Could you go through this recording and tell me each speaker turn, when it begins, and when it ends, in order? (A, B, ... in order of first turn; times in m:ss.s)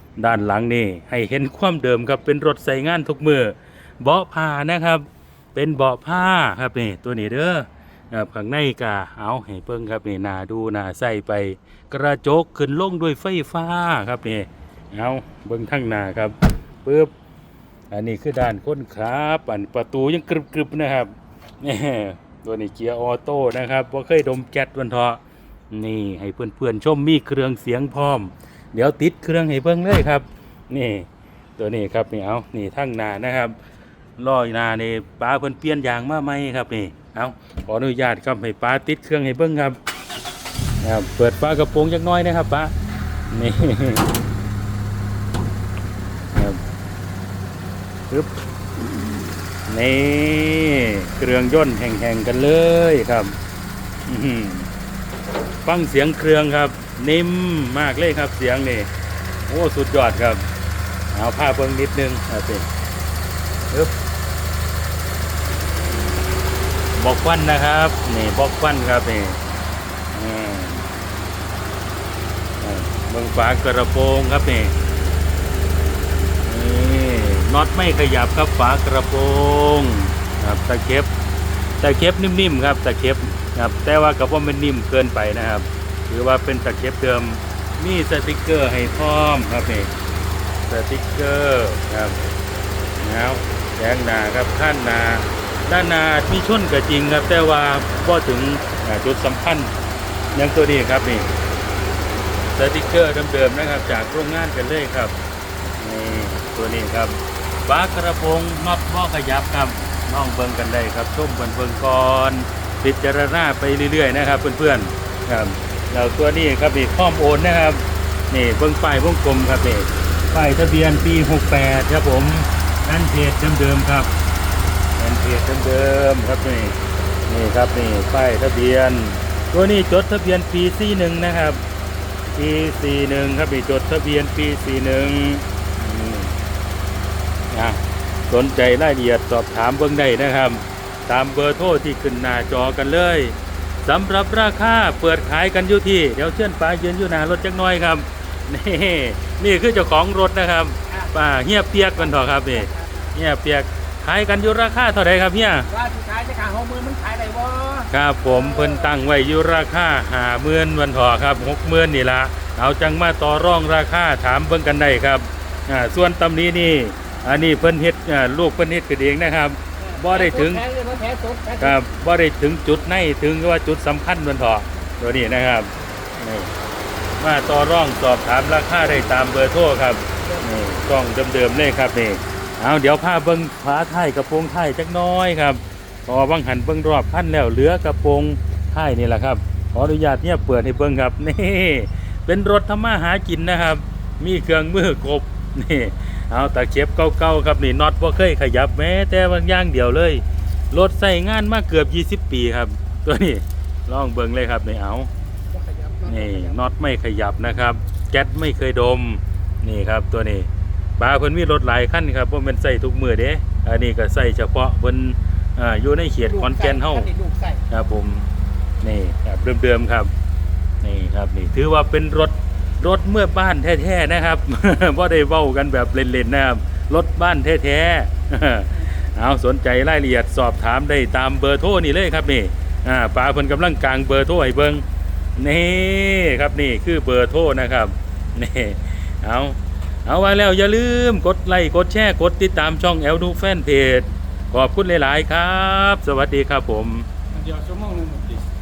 0:00.2-0:17.1 A
0:17.9-0:33.6 A
0:34.2-0:39.8 A
0:40.8-0:42.7 A
0:43.3-0:44.1 A
0:46.3-0:46.6 A
0:49.7-0:53.4 A
0:54.1-0:54.7 A
0:55.6-0:58.9 A
0:59.5-1:00.5 A
1:01.1-1:02.7 A
1:07.0-1:09.4 A
1:10.1-1:10.9 A
1:12.6-1:14.8 A
1:16.5-1:21.1 A
1:21.8-1:29.9 A
1:30.7-1:32.2 A
1:33.0-1:39.7 A
1:40.4-1:41.3 A
1:42.5-1:45.2 A
1:45.7-2:04.1 A
2:05.0-2:11.6 A
2:12.3-2:16.4 A
2:17.5-2:35.7 A
2:32.6-2:33.0 B
2:35.7-2:38.9 B
2:37.9-2:50.7 A
2:49.9-2:51.8 B
2:51.6-2:56.5 A
2:57.2-3:25.1 A
3:25.5-3:26.5 B
3:26.0-3:37.1 A
3:36.3-3:37.6 B
3:37.7-3:38.3 A
3:38.8-3:40.1 A
3:40.8-3:54.8 A
3:55.4-4:07.1 A
4:07.4-4:08.4 B